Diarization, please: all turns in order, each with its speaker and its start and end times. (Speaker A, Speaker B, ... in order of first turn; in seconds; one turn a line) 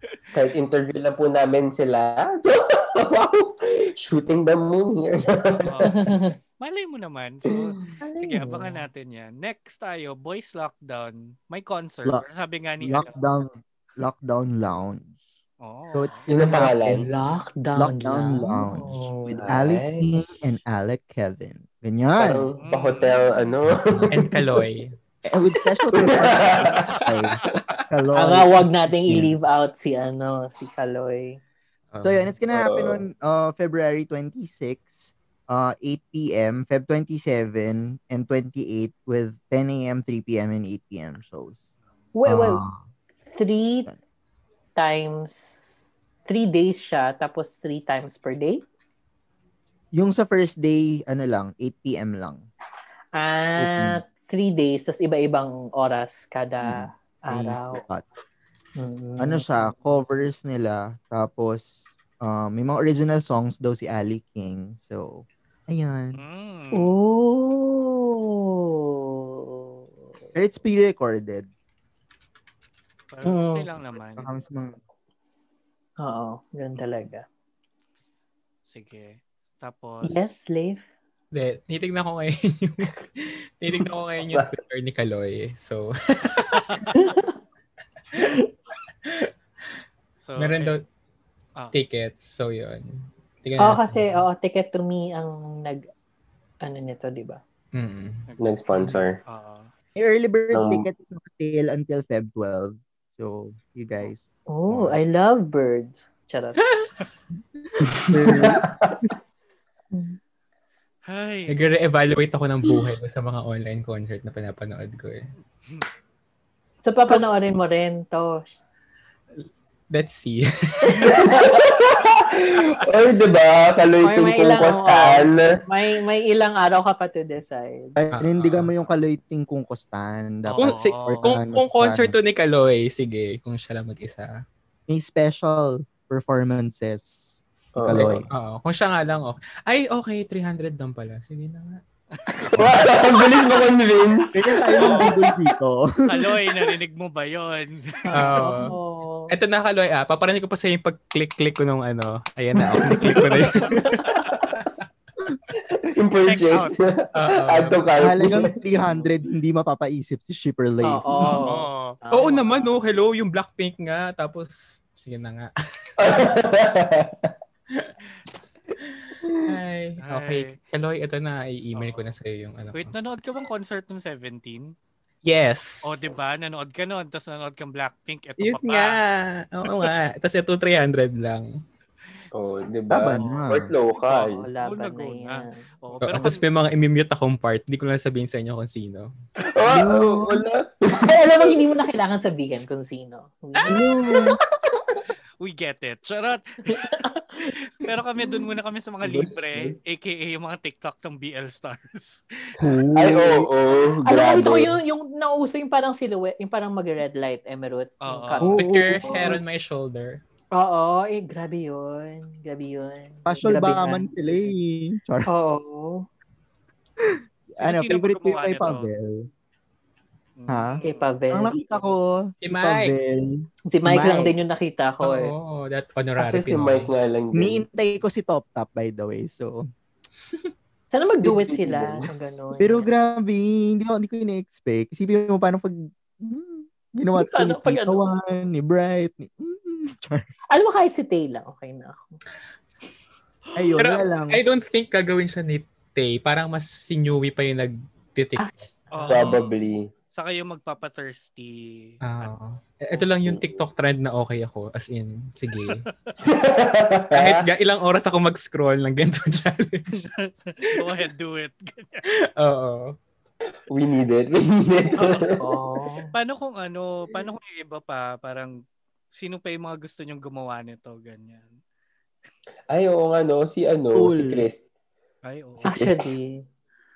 Speaker A: 0.3-6.1
Speaker B: 5.7-6.0
Speaker C: 5.9-6.3
Speaker B: 6.6-13.2
Speaker C: 8.0-8.9
Speaker D: 12.8-15.1
Speaker B: 15.6-16.3
Speaker D: 15.9-17.0
Speaker A: 16.3-17.1
Speaker C: 16.5-19.5
Speaker D: 17.8-22.4
Speaker A: 19.4-20.1
Speaker A: 22.2-24.6
Speaker B: 22.6-23.2
Speaker E: 24.1-25.0
Speaker D: 25.3-27.4
Speaker A: 25.9-26.9
Speaker B: 26.8-27.6
Speaker D: 27.9-29.3
Speaker C: 28.1-31.4
Speaker E: 31.9-32.3
Speaker D: 32.0-41.6
Speaker A: 32.5-33.0
Speaker C: 42.1-42.6
Speaker D: 42.3-42.8
Speaker C: 43.3-43.9
Speaker C: 44.8-48.6
Speaker D: 50.0-52.4
Speaker C: 53.1-57.8
Speaker D: 53.6-54.0
Speaker D: 56.6-58.1
Speaker C: 58.8-59.7
Speaker D: 59.2-66.2
Speaker B: 66.2-67.0
Speaker C: 66.7-69.7
Speaker D: 70.3-71.5
Speaker B: 73.1-74.3
Speaker C: 73.3-73.6
Speaker D: 74.2-74.8
Speaker C: 76.0-77.2
Speaker B: 78.7-80.3
Speaker C: 80.0-80.9
Speaker E: 81.3-87.0
Speaker A: 84.2-84.5
Speaker B: 86.5-86.9
Speaker C: 87.0-87.3
Speaker C: 88.2-88.5
Speaker E: 89.0-89.3
Speaker B: 90.2-90.7
Speaker E: 90.4-90.8
Speaker E: 91.7-94.1
Speaker C: 93.6-95.8
Speaker C: 96.6-97.4
Speaker E: 97.7-99.0
Speaker B: 98.3-99.7
Speaker A: 98.4-99.2
Speaker D: 100.0-104.9
Speaker A: 100.5-100.8
Speaker C: 104.5-106.6
Speaker E: 106.6-106.9
Speaker A: 107.8-109.1
Speaker D: 108.1-108.7
Speaker C: 109.9-110.2
Speaker B: 111.1-111.6
Speaker E: 111.5-115.3
Speaker C: 116.8-118.6
Speaker E: 119.9-121.3
Speaker A: 121.0-125.6
Speaker C: 124.0-128.0
Speaker D: 128.0-132.2
Speaker E: 128.1-128.7
Speaker B: 130.5-131.3
Speaker E: 130.6-134.3
Speaker D: 134.9-138.3
Speaker A: 137.8-138.2
Speaker E: 137.9-141.8
Speaker A: 142.5-145.2
Speaker D: 144.3-146.4
Speaker B: 144.8-145.1
Speaker B: 146.1-148.4
Speaker C: 148.1-149.3
Speaker E: 148.1-148.8
Speaker E: 149.3-154.2
Speaker A: 152.6-154.7
Speaker A: 155.7-158.4
Speaker B: 156.3-156.7
Speaker E: 157.1-157.9
Speaker D: 158.0-161.4
Speaker C: 160.8-162.7
Speaker B: 161.5-162.0
Speaker E: 162.1-166.1
Speaker A: 166.0-167.3
Speaker E: 167.7-167.9
Speaker E: 168.8-172.9
Speaker B: 170.1-170.6
Speaker B: 171.8-172.1
Speaker B: 172.7-174.7
Speaker E: 175.2-176.0
Speaker B: 175.8-179.0
Speaker E: 178.4-181.5
Speaker A: 182.3-184.5
Speaker D: 182.9-183.7
Speaker B: 183.2-183.6
Speaker C: 184.0-185.7
Speaker B: 184.6-186.5
Speaker E: 186.0-189.1
Speaker A: 189.5-191.6
Speaker D: 189.7-190.4
Speaker C: 190.9-193.8
Speaker D: 193.7-194.4
Speaker B: 195.4-202.5
Speaker C: 196.7-197.2
Speaker A: 199.0-199.7
Speaker D: 202.6-203.5
Speaker A: 202.9-204.8
Speaker C: 204.1-209.4
Speaker B: 208.0-208.5
Speaker D: 208.4-209.4
Speaker E: 208.6-210.2
Speaker C: 210.6-214.5
Speaker D: 213.3-215.3
Speaker C: 215.3-216.1
Speaker D: 217.1-219.3
Speaker B: 217.6-218.9
Speaker B: 220.4-221.1
Speaker D: 220.5-224.3
Speaker C: 220.8-221.9
Speaker E: 222.4-223.0
Speaker C: 223.7-225.3
Speaker E: 225.0-226.9
Speaker A: 226.2-227.6
Speaker D: 227.3-229.7
Speaker C: 230.9-232.8
Speaker A: 231.2-232.1
Speaker D: 232.6-240.3
Speaker C: 237.2-238.0
Speaker C: 240.5-242.2
Speaker D: 243.6-244.4
Speaker E: 243.7-249.3
Speaker B: 248.9-249.6
Speaker A: 249.1-249.9
Speaker B: 250.1-252.3
Speaker E: 252.0-255.8
Speaker A: 253.2-253.6
Speaker B: 255.7-256.1
Speaker A: 256.2-257.4
Speaker E: 257.1-260.1
Speaker B: 259.9-262.0
Speaker E: 262.1-262.9
Speaker A: 263.7-265.4
Speaker B: 265.0-265.4
Speaker C: 265.4-266.1
Speaker B: 266.1-268.6
Speaker B: 269.1-271.6
Speaker A: 272.7-274.6
Speaker D: 273.9-274.5
Speaker B: 275.3-275.7
Speaker A: 275.6-276.1
Speaker C: 275.7-276.4